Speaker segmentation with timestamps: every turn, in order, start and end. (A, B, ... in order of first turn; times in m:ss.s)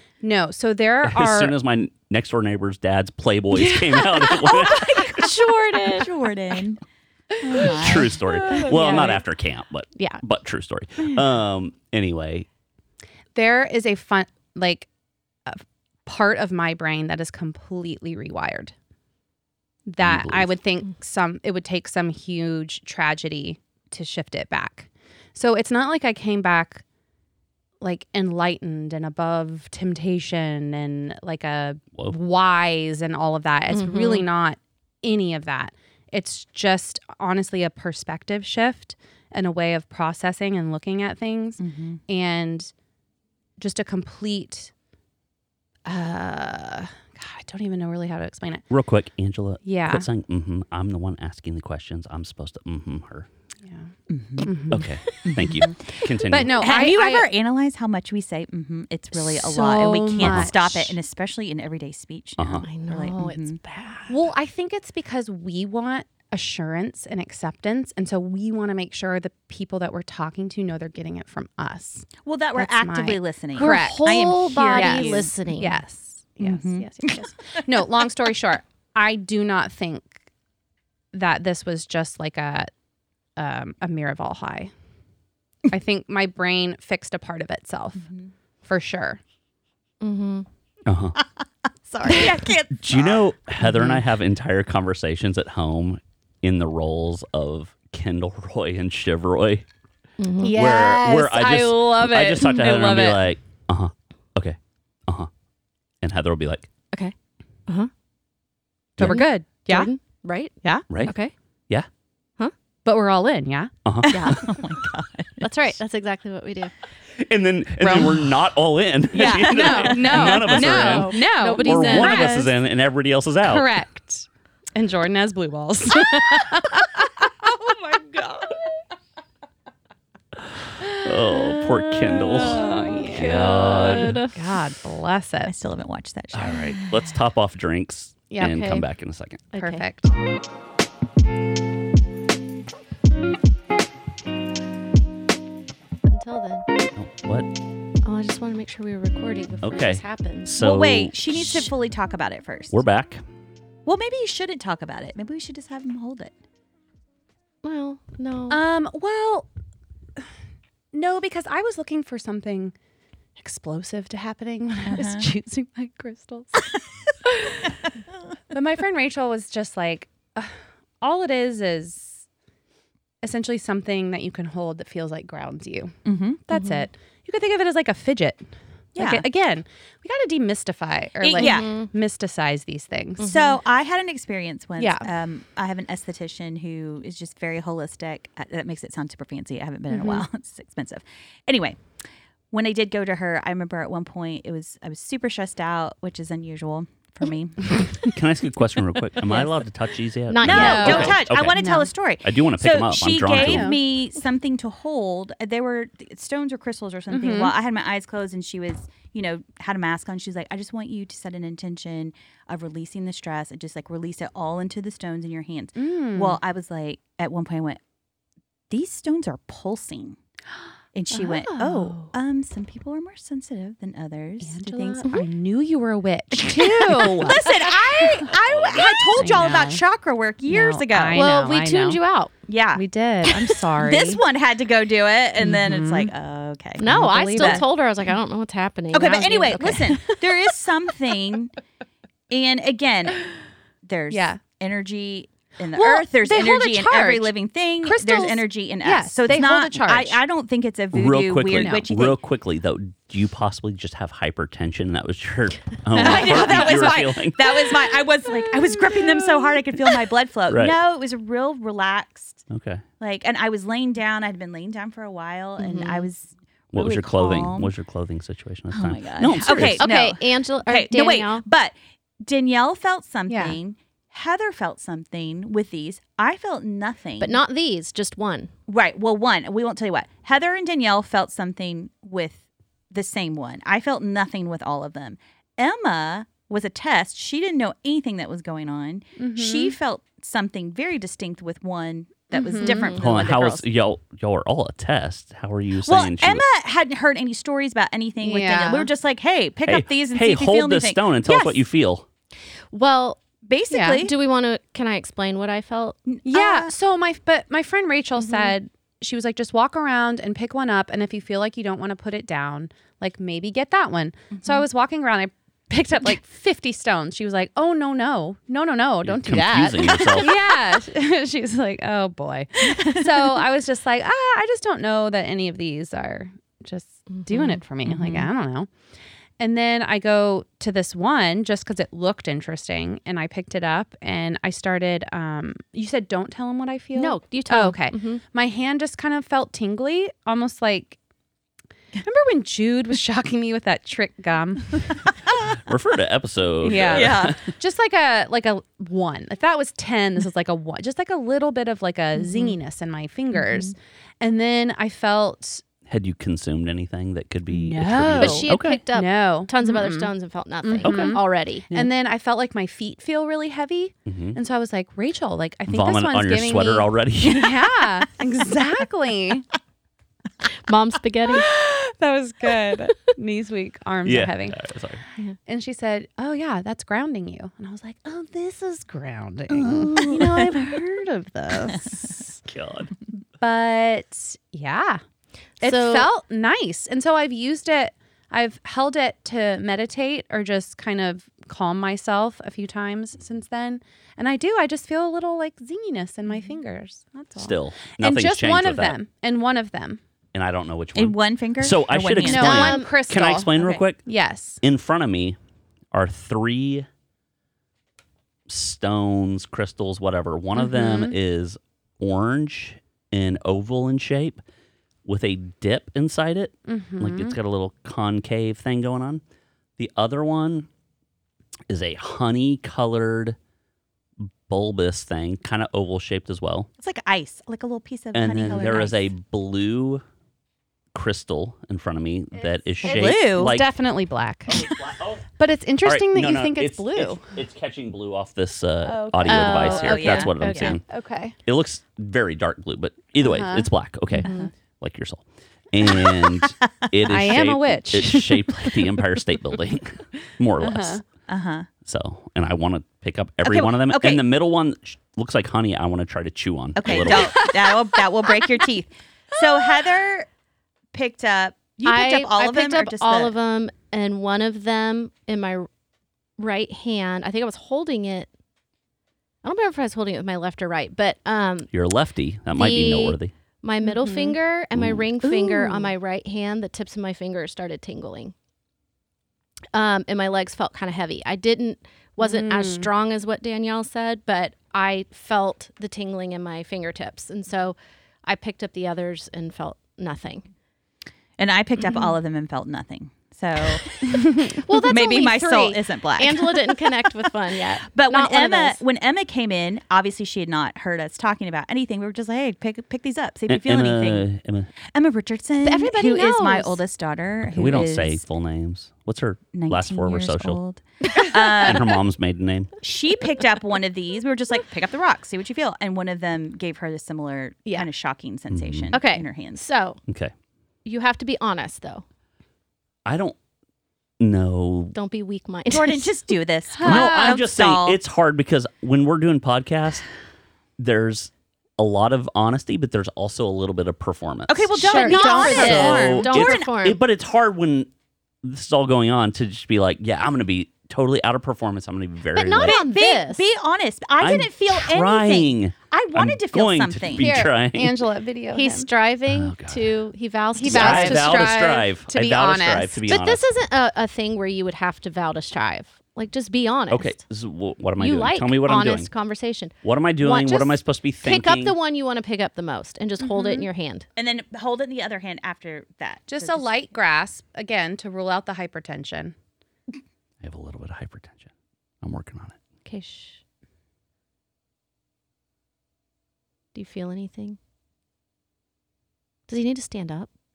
0:00.2-0:01.6 A
0:01.0-0:05.4 B
0:03.8-0:06.1 C
0:04.4-0:06.8 D
0:07.4-0:08.7 D
0:07.6-0:12.5 B
0:08.5-0:09.2 A
0:13.4-0:14.9 A
0:15.5-0:18.7 A
0:19.9-0:26.8 A
0:20.0-0:20.6 B
0:27.8-0:42.7 A
0:33.7-0:34.3 C
0:41.6-0:42.0 D
0:43.6-0:44.7 A
0:45.8-0:48.6 A
0:48.7-0:53.3 B
0:49.6-0:50.1 A
0:54.1-0:55.7 D
0:54.4-0:54.8 A
0:54.7-0:56.7 B
0:55.1-0:55.4 C
0:55.5-0:57.3 A
0:56.5-1:03.6 D
0:59.1-1:00.9 A
1:00.2-1:00.7 B
1:02.4-1:02.7 B
1:02.6-1:04.1 C
1:04.1-1:20.2 A
1:12.2-1:15.3 D
1:13.6-1:15.8 C
1:16.4-1:17.3 D
1:21.1-1:22.7 A
1:23.4-1:24.7 A
1:25.7-1:28.1 A
1:28.0-1:28.3 D
1:28.6-1:29.2 A
1:30.0-1:30.5 C
1:30.9-1:31.2 B
1:31.2-1:33.3 D
1:32.8-1:39.6 B
1:33.6-1:34.0 A
1:40.2-1:40.6 C
1:40.4-1:43.2 A
1:40.5-1:45.3 B
1:46.0-1:46.7 B
1:49.0-1:49.9 A
1:49.0-1:50.5 C
1:51.0-1:51.3 C
1:52.8-1:54.3 A
1:53.8-1:54.4 B
1:54.1-1:54.4 C
1:54.2-1:55.4 D
1:55.4-1:56.7 C
1:57.2-2:03.7 B
1:57.8-1:58.2 A
1:59.2-2:00.6 D
1:59.2-2:02.4 C
1:59.2-2:02.5 A
2:03.4-2:08.5 A
2:10.9-2:14.2 B
2:11.0-2:15.5 A
2:13.2-2:14.3 C
2:15.5-2:16.7 D
2:16.3-2:19.5 B
2:18.3-2:18.6 A
2:18.4-2:18.9 C
2:19.5-2:19.8 C
2:19.6-2:20.1 A
2:26.1-2:26.7 C
2:27.0-2:27.5 B
2:28.0-2:30.5 C
2:29.6-2:31.7 B
2:30.6-2:32.8 D
2:32.7-2:33.2 B
2:33.9-2:36.4 D
2:37.6-2:38.6 C
2:38.5-2:39.5 A
2:40.9-2:42.8 A
2:43.4-2:46.7 A
2:44.9-2:45.3 D
2:47.3-2:47.7 A
2:48.5-2:52.2 A
2:53.2-3:03.5 A
2:56.0-2:56.9 D
2:59.0-2:59.3 D
3:01.2-3:01.8 D
3:01.4-3:01.9 C
3:03.2-3:03.6 C
3:03.2-3:11.8 D
3:04.8-3:05.1 A
3:09.9-3:10.2 A
3:12.5-3:18.1 D
3:18.1-3:23.7 B
3:20.3-3:21.2 C
3:20.4-3:21.9 A
3:20.4-3:37.8 D
3:23.3-3:23.8 A
3:27.1-3:27.5 A
3:35.8-3:36.4 A
3:38.7-3:40.2 D
3:40.9-3:45.1 D
3:41.1-3:42.1 A
3:44.4-3:48.2 A
3:46.4-3:51.3 D
3:48.3-3:49.3 B
3:49.1-3:49.8 A
3:50.5-3:52.0 A
3:51.1-3:52.3 C
3:52.5-3:57.6 D
3:52.8-3:54.2 A
3:55.4-3:56.1 A
3:56.8-4:00.5 C
3:56.8-3:57.7 A
3:58.9-4:01.5 D
4:02.3-4:03.3 D
4:03.8-4:12.2 D
4:04.1-4:04.4 A
4:05.7-4:10.2 A
4:10.9-4:17.5 B
4:11.5-4:11.9 A
4:15.9-4:22.4 D
4:16.0-4:16.9 A
4:20.5-4:20.8 B
4:22.5-4:22.8 B
4:23.0-4:27.7 D
4:25.6-4:26.1 C
4:26.7-4:29.8 B
4:28.7-4:37.4 D
4:29.4-4:31.4 C
4:33.3-4:33.6 A
4:37.2-4:38.5 C
4:38.7-4:53.7 D
4:49.2-4:49.8 A
4:52.3-4:53.0 A
4:52.6-4:53.0 C
4:52.9-4:56.5 B
4:55.8-5:01.2 D
4:58.2-4:58.9 A
4:59.7-5:02.1 B
5:01.3-5:01.5 A
5:02.7-5:03.2 C
5:03.4-5:04.1 D
5:03.7-5:04.0 A
5:03.9-5:06.0 C
5:06.1-5:06.7 D
5:06.2-5:28.7 A
5:14.4-5:14.6 D
5:19.0-5:20.4 B
5:27.1-5:27.6 C
5:27.8-5:28.3 D
5:29.4-5:41.0 A
5:37.0-5:38.2 C
5:42.0-5:45.0 A
5:45.5-5:47.5 B
5:46.6-5:55.6 A
5:46.8-5:47.4 D
5:53.3-5:53.7 D
5:55.9-5:58.8 B
5:57.5-6:00.1 A
5:58.1-6:01.7 C
6:00.6-6:09.5 A
6:00.8-6:01.2 B
6:04.1-6:04.4 B
6:05.7-6:07.7 B
6:10.5-6:11.5 C
6:11.3-6:14.6 A
6:14.0-6:15.0 B
6:15.5-6:22.4 A
6:20.0-6:20.6 D
6:22.5-6:22.9 B
6:23.4-6:25.0 A
6:25.6-6:26.1 C
6:25.6-6:40.0 A
6:37.4-6:39.0 B
6:40.3-6:44.0 B
6:41.0-6:42.8 D
6:42.2-6:44.6 A
6:42.4-6:42.9 C
6:44.6-6:45.4 B
6:45.9-6:46.9 B
6:48.5-6:54.4 B
6:50.6-6:51.2 A
6:55.0-6:59.2 B
6:56.7-6:57.4 A
6:59.8-7:00.7 B
7:01.7-7:03.4 B
7:04.2-7:06.7 B
7:06.8-7:09.1 D
7:08.1-7:10.0 B
7:10.9-7:13.7 B
7:12.8-7:13.6 D
7:12.8-7:14.7 A
7:14.5-7:15.3 B
7:15.4-7:17.3 A
7:15.8-7:20.8 B
7:18.8-7:21.4 A
7:19.3-7:20.4 D
7:20.4-7:20.8 C
7:21.4-7:31.0 B
7:23.2-7:24.3 A
7:27.0-7:28.9 A
7:30.6-7:31.0 A
7:31.3-7:31.7 D
7:31.8-7:37.5 B
7:33.4-7:34.2 D
7:36.8-7:40.3 D
7:37.1-7:38.0 A
7:40.9-7:43.3 D
7:41.8-7:45.7 C
7:46.4-7:48.3 C
7:49.4-7:51.7 C
7:51.7-7:53.3 B
7:52.5-7:58.3 C
7:53.8-7:54.4 A
7:54.8-7:55.1 B
7:55.2-7:55.9 A
7:59.7-8:07.8 C
8:02.2-8:02.9 A
8:08.3-8:10.5 C
8:11.4-8:17.0 D
8:11.9-8:12.1 C
8:14.0-8:15.8 A
8:14.7-8:18.8 C
8:17.9-8:24.3 D
8:23.5-8:24.7 B
8:24.9-8:28.2 D
8:25.6-8:26.8 A
8:27.4-8:30.6 B
8:29.5-8:32.0 D
8:31.6-8:32.7 B
8:32.8-8:39.6 D
8:38.5-8:39.0 B
8:38.9-8:40.0 C
8:40.1-8:40.3 B
8:40.8-8:42.0 C
8:43.1-8:43.4 B
8:44.2-8:45.0 B
8:45.0-8:46.2 C
8:45.7-8:48.0 D
8:46.8-8:47.4 A
8:46.8-8:50.0 B
8:50.8-8:57.9 B
8:54.5-8:56.8 D
8:54.8-8:55.9 A
8:54.8-8:57.0 C
8:58.4-9:02.8 B
9:02.4-9:03.4 C
9:02.6-9:07.4 D
9:04.2-9:08.0 B
9:07.2-9:08.9 A
9:08.5-9:11.5 C
9:09.3-9:10.0 B
9:10.6-9:13.1 A
9:10.6-9:13.5 B
9:13.1-9:17.2 C
9:16.9-9:19.1 B
9:18.0-9:24.1 C
9:19.8-9:21.8 B
9:23.2-9:23.7 A
9:24.2-9:26.9 D
9:26.3-9:29.4 A
9:30.4-9:31.5 B
9:32.0-9:32.6 B
9:32.9-9:33.4 C
9:36.7-9:37.6 C
9:39.5-9:40.3 C